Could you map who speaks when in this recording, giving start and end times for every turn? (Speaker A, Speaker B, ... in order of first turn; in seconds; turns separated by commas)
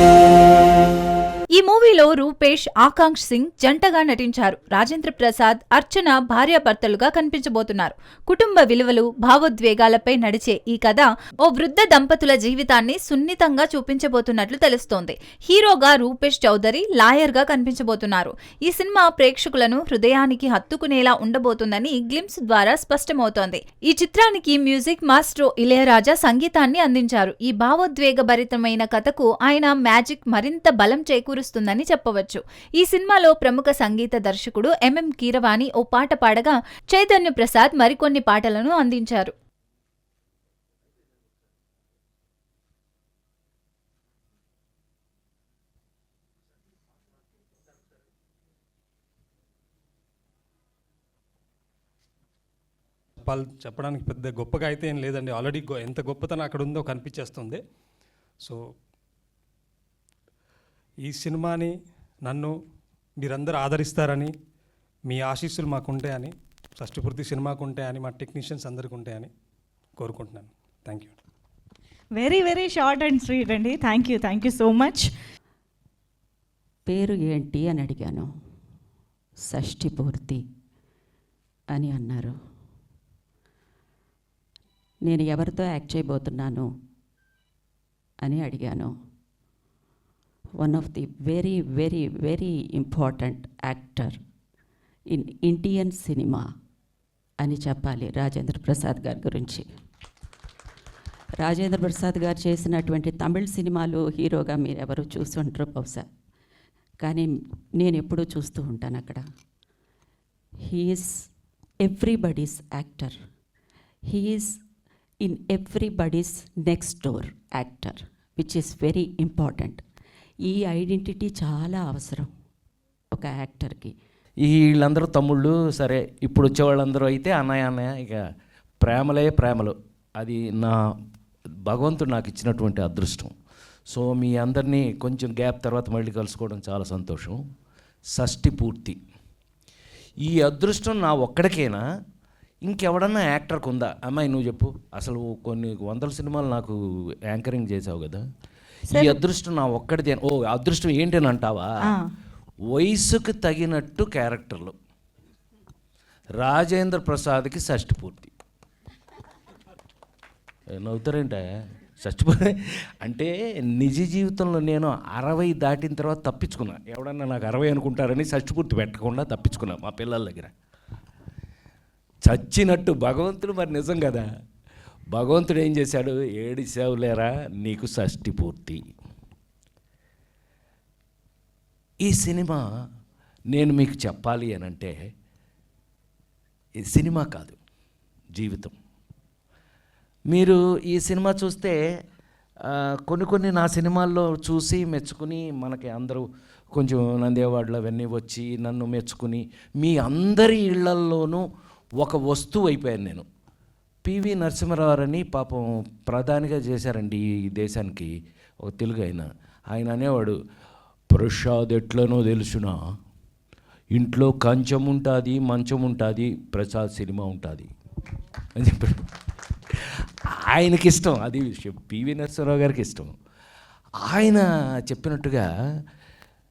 Speaker A: 1.6-39.3, Speaker B: 53.2-57.6, Speaker B: 61.0-61.7, Speaker B: 62.2-62.5, Speaker B: 63.2-64.3, Speaker B: 65.1-69.3, Speaker B: 70.0-71.2, Speaker C: 72.1-75.1, Speaker D: 76.9-78.3, Speaker D: 79.5-80.4, Speaker D: 81.7-82.3, Speaker D: 85.1-86.6, Speaker D: 88.2-88.9, Speaker D: 90.7-94.1, Speaker D: 95.5-96.4, Speaker D: 97.4-99.7, Speaker A: 98.0-99.2, Speaker D: 101.6-106.0, Speaker D: 107.8-109.2, Speaker D: 111.9-113.1, Speaker D: 114.1-114.5, Speaker D: 115.3-119.8, Speaker D: 120.5-122.2, Speaker D: 123.2-123.7, Speaker A: 123.3-123.9, Speaker E: 124.4-128.2, Speaker E: 128.8-130.8, Speaker E: 131.7-133.3, Speaker E: 133.9-137.4, Speaker E: 138.2-139.0, Speaker E: 140.3-141.8, Speaker E: 142.7-146.8, Speaker E: 147.3-148.2, Speaker C: 148.9-149.2, Speaker E: 148.9-151.9, Speaker E: 152.7-154.8, Speaker E: 156.4-158.3, Speaker E: 160.7-161.4, Speaker E: 162.0-170.5, Speaker E: 172.2-174.2, Speaker E: 175.1-178.8, Speaker E: 182.0-182.6, Speaker E: 183.5-184.9, Speaker E: 186.8-187.6, Speaker E: 188.3-188.8, Speaker E: 190.3-191.8, Speaker E: 192.7-201.4, Speaker E: 202.0-203.3, Speaker E: 204.1-210.4, Speaker E: 211.1-212.7, Speaker E: 213.9-217.7, Speaker E: 218.6-219.0, Speaker E: 220.5-223.1, Speaker E: 224.1-225.5